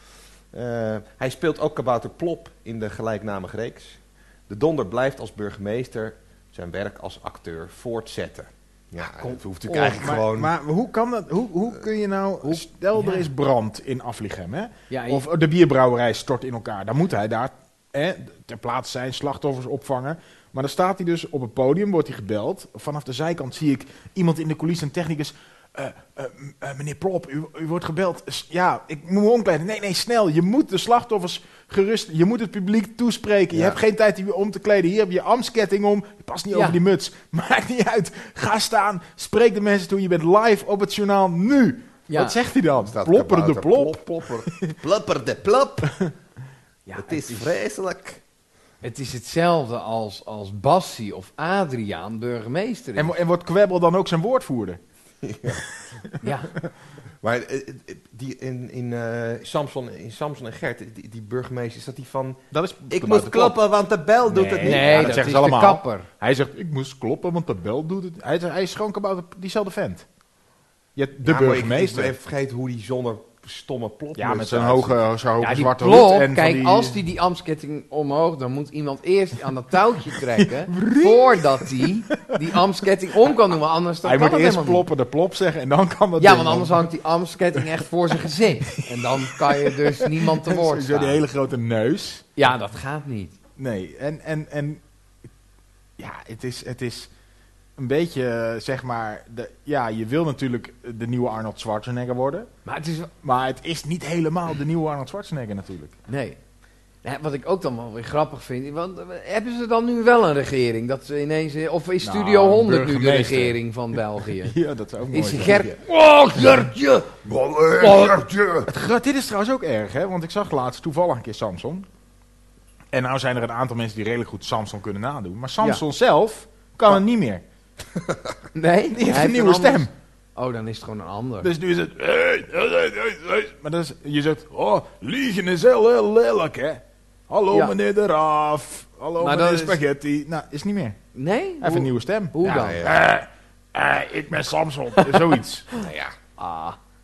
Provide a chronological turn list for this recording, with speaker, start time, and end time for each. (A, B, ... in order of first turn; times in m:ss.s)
0:00.5-0:10.5 A
0:09.2-0:10.0 B
0:09.7-0:44.8 C
0:13.0-0:13.3 B
0:14.9-0:15.2 B
0:33.5-0:33.8 A
0:36.5-0:36.8 B
0:42.1-0:42.4 B
0:42.8-0:46.0 A
0:45.9-0:46.1 C
0:46.9-0:47.5 B
0:47.0-0:48.2 A
0:48.8-0:53.1 B
0:53.0-0:54.8 C
0:55.2-0:55.7 A
0:55.5-0:56.2 C
0:56.2-0:56.5 B
0:57.2-1:05.2 A
1:02.5-1:03.6 C
1:04.3-1:10.1 C
1:04.6-1:06.1 B
1:11.0-1:12.2 C
1:11.2-1:15.0 A
1:14.2-1:17.0 C
1:15.4-1:24.9 B
1:20.4-1:22.6 C
1:24.0-1:26.9 C
1:26.2-1:31.2 B
1:28.8-1:32.2 C
1:32.4-1:33.4 B
1:33.6-1:34.8 C
1:36.0-1:37.1 C
1:37.8-1:42.5 C
1:42.6-1:43.1 B
1:43.2-1:46.0 C
1:46.1-1:46.4 B
1:47.0-1:54.6 B
1:52.0-1:55.7 C
1:55.1-1:57.2 B
1:57.2-1:58.7 A
1:57.8-1:58.3 B
1:58.7-2:01.9 C
2:02.9-2:07.4 C
2:08.5-2:11.5 B
2:08.9-2:09.9 C
2:11.4-2:21.0 C
2:19.2-2:19.8 B
2:21.1-2:22.8 B
2:21.6-2:25.7 C
2:22.5-2:23.0 A
2:25.7-2:26.2 A
2:26.4-2:26.8 B